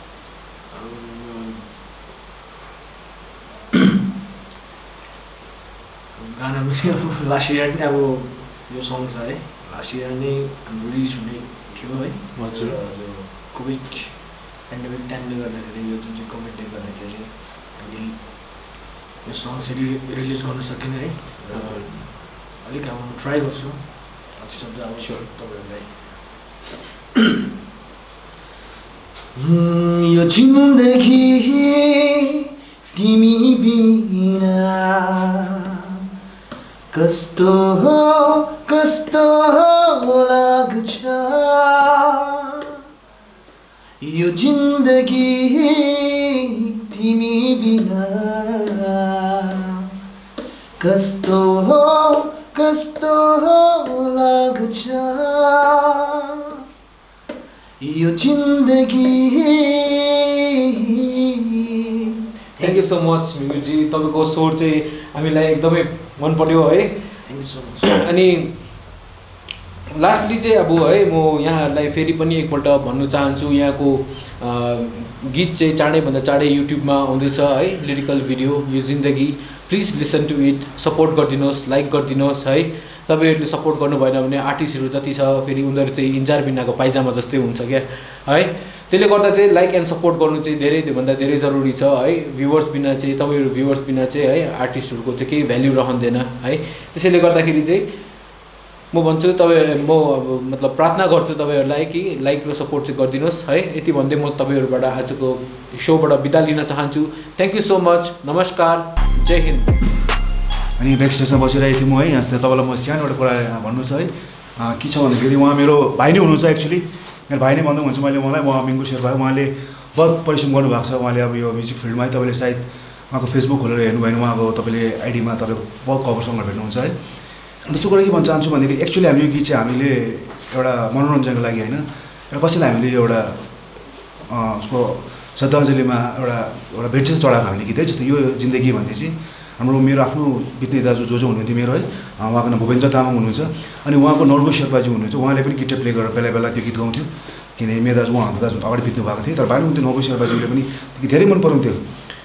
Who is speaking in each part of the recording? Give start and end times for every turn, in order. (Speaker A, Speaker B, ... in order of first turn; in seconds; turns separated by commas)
Speaker A: 0.7-1.7, Speaker A: 6.2-26.4, Speaker B: 12.3-12.8, Speaker B: 21.5-21.9, Speaker B: 25.0-25.3, Speaker A: 29.4-32.2, Speaker A: 32.9-35.5, Speaker A: 36.9-42.5, Speaker A: 44.0-49.5, Speaker A: 50.8-56.0, Speaker A: 57.8-60.3, Speaker A: 62.6-62.8, Speaker B: 62.6-67.1, Speaker A: 67.2-67.9, Speaker B: 67.8-69.0, Speaker B: 69.9-98.0, Speaker B: 98.9-109.7, Speaker C: 110.8-126.9, Speaker C: 127.7-133.6, Speaker C: 134.2-151.8